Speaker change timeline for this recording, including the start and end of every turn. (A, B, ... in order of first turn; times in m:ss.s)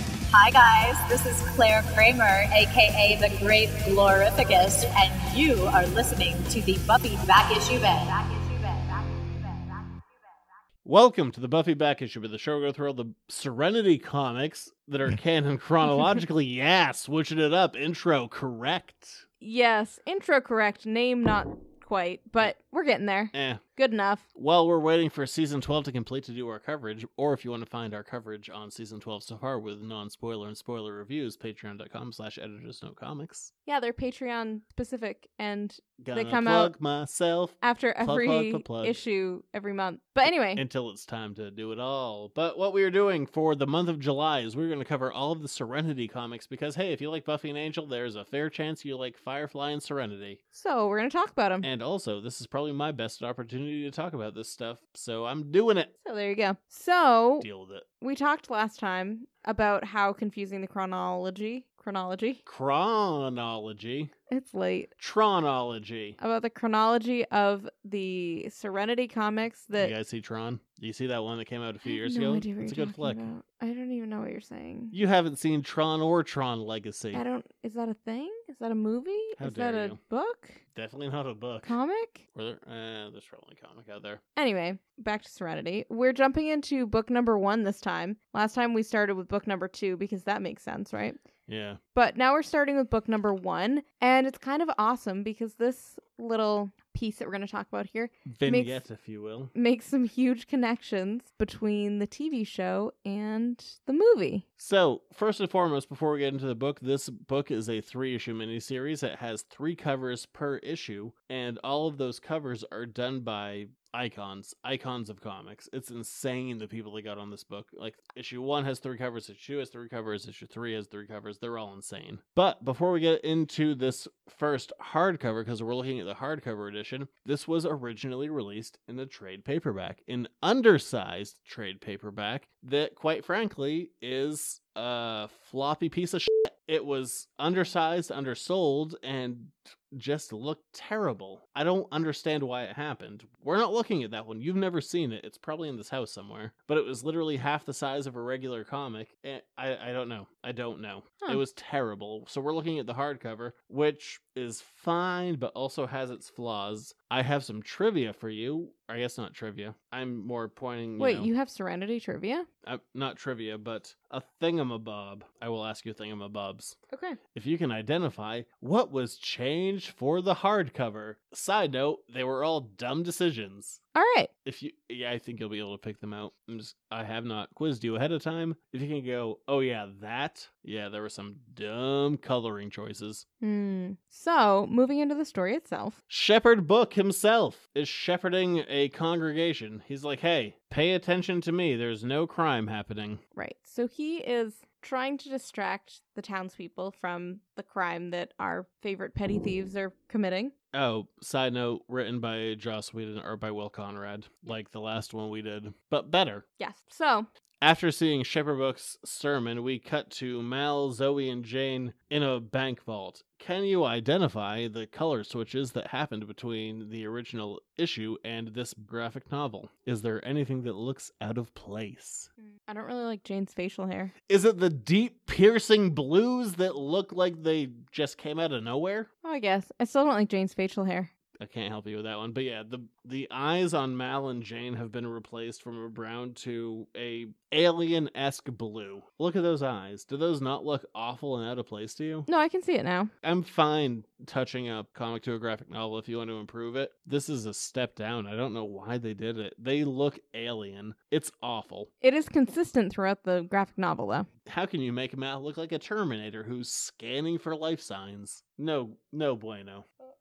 0:00.3-0:10.4 A
0:10.8-0:19.2 B
0:19.4-0:24.2 C
0:23.3-0:23.6 B
0:24.3-0:33.5 B
0:33.6-0:36.7 C
0:36.0-0:39.0 B
0:37.6-0:40.6 C
0:40.5-0:50.4 B
0:50.5-0:51.7 C
0:51.6-0:55.9 B
0:56.0-0:57.5 C
0:57.4-0:57.8 B
0:58.0-1:02.4 C
1:02.4-1:04.1 B
1:04.3-1:04.9 C
1:05.0-1:06.2 B
1:06.2-1:09.9 C
1:09.8-1:13.3 B
1:11.8-1:14.9 C
1:14.9-1:17.2 B
1:17.1-1:20.6 C
1:19.4-1:20.0 B
1:20.7-1:21.7 B
1:21.6-1:22.2 C
1:22.3-1:24.2 B
1:24.4-1:31.2 C
1:31.5-1:31.8 B
1:31.9-1:38.8 C
1:38.2-1:39.5 B
1:39.5-1:44.4 C
1:44.6-2:41.3 B
2:41.0-2:42.4 C
2:42.6-2:46.8 B
2:46.9-2:47.2 C
2:47.3-2:53.8 B
2:53.9-2:54.3 C
2:54.4-3:03.2 B
3:03.4-3:06.0 C
3:06.1-3:13.2 B
3:13.3-3:20.5 C
3:20.7-3:26.4 B
3:26.6-3:27.3 C
3:27.6-3:42.3 B
3:42.6-3:44.1 C
3:44.3-3:49.1 B
3:49.2-3:51.1 C
3:51.4-4:02.3 B
4:02.3-4:03.1 C
4:03.2-4:11.9 B
4:12.0-4:14.3 C
4:14.4-4:19.8 B